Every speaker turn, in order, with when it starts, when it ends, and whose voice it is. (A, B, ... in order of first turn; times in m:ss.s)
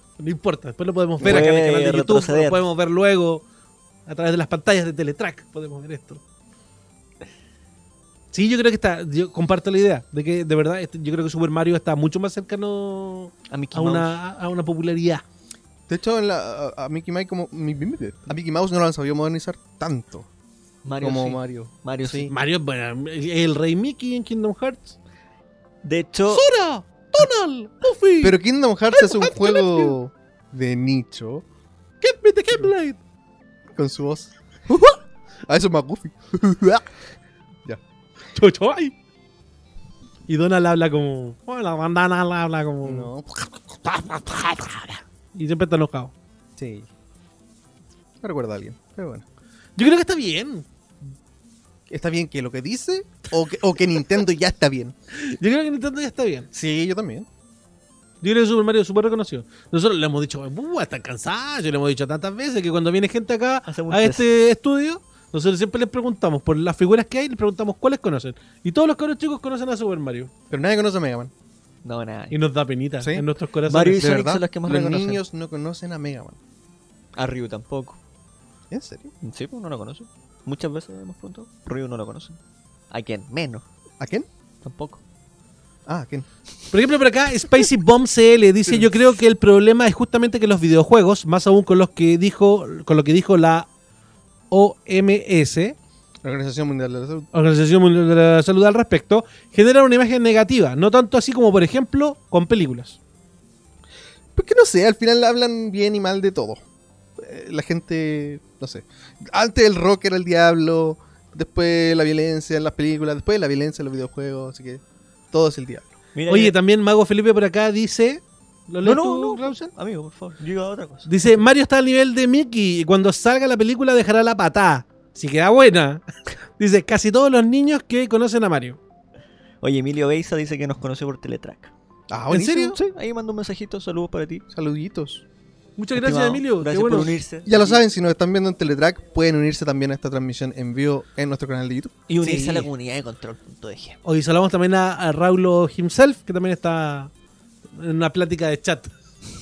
0:00.2-0:03.4 A
0:01.2-0:01.4 B
0:01.2-0:02.6 C
0:04.1-0:06.2 A
0:08.3-0:15.2 A
0:13.5-0:14.1 C
0:15.9-0:20.3 B
0:20.8-0:22.3 C
0:21.0-0:22.3 B
0:22.3-0:25.0 A
0:25.8-0:26.4 C
0:26.3-0:28.4 A
0:28.2-0:31.4 B
0:28.9-0:29.9 A
0:32.0-0:33.0 A
0:33.7-0:36.8 B
0:38.3-0:38.9 A
0:40.3-0:43.1 A
0:42.8-0:43.3 B
0:43.7-0:46.1 A
0:46.6-0:46.9 B
0:48.2-0:49.2 B
0:49.8-0:50.6 A
0:51.9-0:54.9 B
0:55.1-0:56.5 A
0:56.5-0:57.3 B
0:58.2-1:10.3 A
1:03.7-1:04.2 C
1:10.5-1:11.3 B
1:11.8-1:12.4 C
1:12.3-1:14.1 A
1:13.0-1:13.3 B
1:13.7-1:15.2 C
1:14.0-1:16.4 B
1:17.2-1:18.0 C
1:18.7-1:19.1 B
1:19.2-1:22.4 C
1:22.9-1:23.6 C
1:24.0-1:24.3 B
1:24.6-1:25.0 C
1:25.9-1:26.2 B
1:26.7-1:33.7 A
1:28.7-1:29.0 B
1:34.5-1:35.8 A
1:36.2-1:37.3 B
1:37.3-1:43.0 A
1:44.3-1:46.6 B
1:47.2-1:55.9 B
1:56.1-1:56.5 C
1:56.3-1:59.7 A
1:58.8-2:01.1 C
2:01.0-2:06.0 A
2:06.6-2:08.8 A
2:09.6-2:11.7 C
2:12.1-2:12.8 B
2:12.3-2:12.7 A
2:12.5-2:14.4 C
2:14.5-2:15.2 B
2:15.8-2:17.2 A
2:16.0-2:17.8 C
2:17.4-2:22.1 B
2:22.1-2:24.0 C
2:22.2-2:22.7 A
2:24.0-2:27.1 A
2:27.7-2:28.9 A